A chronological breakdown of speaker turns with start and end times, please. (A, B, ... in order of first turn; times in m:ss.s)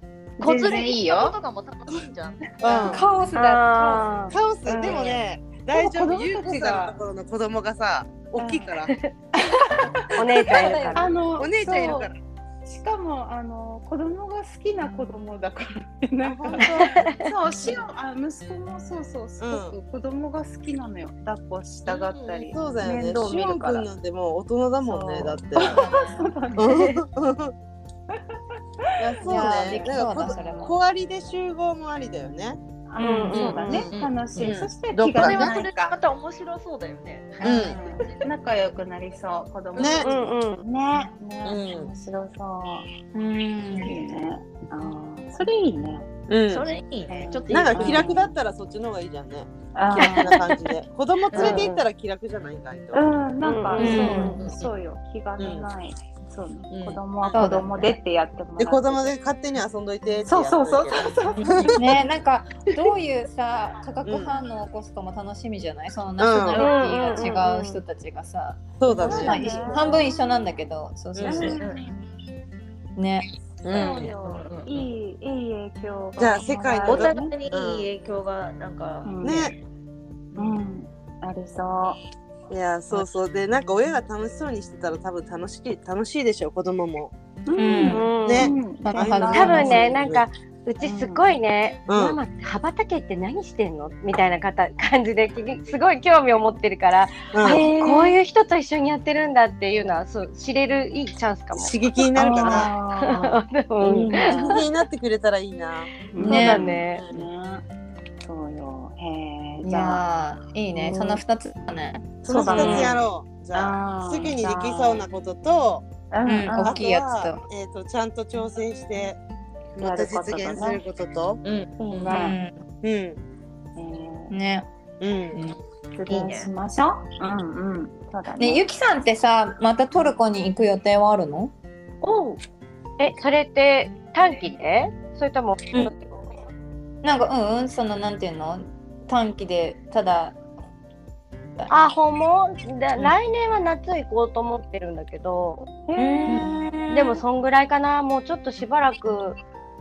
0:00.4-0:01.4 A
0:00.4-0:03.0 B
0:02.6-0:03.0 C
0:02.9-0:04.3 D
0:03.4-0:04.3 E
0:04.3-0:08.9 C
0:04.7-0:07.0 A
0:04.8-0:05.2 B
0:08.4-0:08.7 A
0:09.5-0:23.9 A
0:10.2-0:11.1 E
0:10.6-0:11.2 D
0:11.4-0:12.1 C
0:16.2-0:16.9 C
0:16.6-0:17.2 E
0:19.4-0:19.7 C
0:21.9-0:22.5 B
0:22.5-0:26.0 C
0:24.9-0:26.7 A
0:25.6-0:26.4 D
0:26.6-0:27.5 C
0:29.0-0:32.6 C
0:29.2-0:30.7 D
0:29.3-0:30.7 A
0:32.9-0:36.0 A
0:33.0-0:33.9 E
0:33.3-0:33.7 C
0:33.6-0:34.6 B
0:34.4-0:35.5 C
0:35.2-0:38.1 B
0:37.4-0:37.8 C
0:37.4-0:42.9 A
0:39.8-0:40.1 B
0:39.8-0:40.1 C
0:40.0-0:40.6 E
0:41.4-0:41.9 C
0:43.1-0:44.0 D
0:43.8-0:46.1 A
0:46.3-0:46.7 C
0:46.5-0:48.4 B
0:47.1-0:48.3 A
0:47.5-0:49.5 C
0:49.8-0:50.4 A
0:50.0-0:50.6 B
0:50.0-0:53.1 C
0:51.3-0:51.7 B
0:51.3-0:51.8 A
0:52.9-0:59.2 A
0:53.4-0:54.3 E
0:53.8-0:54.7 B
0:53.8-0:54.4 D
0:55.4-0:55.7 C
0:56.7-0:57.2 B
0:57.3-0:58.0 D
0:58.6-1:01.8 C
1:00.2-1:01.9 A
1:01.8-1:11.6 D
1:04.0-1:04.4 C
1:06.2-1:06.7 C
1:06.6-1:07.8 E
1:08.8-1:09.9 C
1:08.9-1:10.2 A
1:11.2-1:11.5 C
1:11.2-1:11.9 A
1:11.6-1:11.8 B
1:13.0-1:13.3 D
1:13.6-1:14.0 C
1:13.7-1:17.3 A
1:13.8-1:14.9 B
1:16.2-1:17.9 C
1:16.8-1:19.3 B
1:19.0-1:19.5 A
1:19.2-1:19.6 C
1:20.4-1:22.0 A
1:22.5-1:27.1 C
1:27.5-1:30.0 A
1:27.6-1:28.2 D
1:27.8-1:28.5 E
1:27.9-1:30.3 C
1:28.8-1:29.8 D
1:29.3-1:41.7 E
1:30.8-1:31.3 A
1:31.9-1:32.2 C
1:37.3-1:37.6 C
1:37.4-1:38.2 A
1:41.5-1:42.7 C
1:42.2-1:44.7 A
1:42.3-1:44.6 E
1:44.3-1:45.9 C
1:46.1-1:47.6 A
1:46.2-1:47.0 E
1:46.2-1:46.8 D
1:46.8-1:47.2 C
1:48.2-1:50.0 A
1:49.6-1:52.2 D
1:50.7-1:51.2 E
1:52.2-1:55.9 C
1:52.2-1:55.0 A
1:52.5-1:53.0 E
1:56.1-1:56.8 A
1:56.2-1:57.4 D
1:56.6-1:59.2 C
1:59.8-2:01.4 C
1:59.8-2:00.8 A
2:01.4-2:02.2 B
2:01.8-2:02.4 A
2:02.1-2:02.6 D
2:02.8-2:03.2 C
2:03.8-2:04.3 A
2:04.3-2:04.7 D
2:05.0-2:05.4 C
2:05.3-2:06.5 B
2:06.0-2:08.7 A
2:08.4-2:11.5 D
2:12.0-2:12.4 B
2:13.0-2:15.9 E
2:17.0-2:20.4 D
2:21.7-2:25.6 E
2:25.8-2:26.7 A
2:26.0-2:27.2 D
2:26.3-2:29.4 E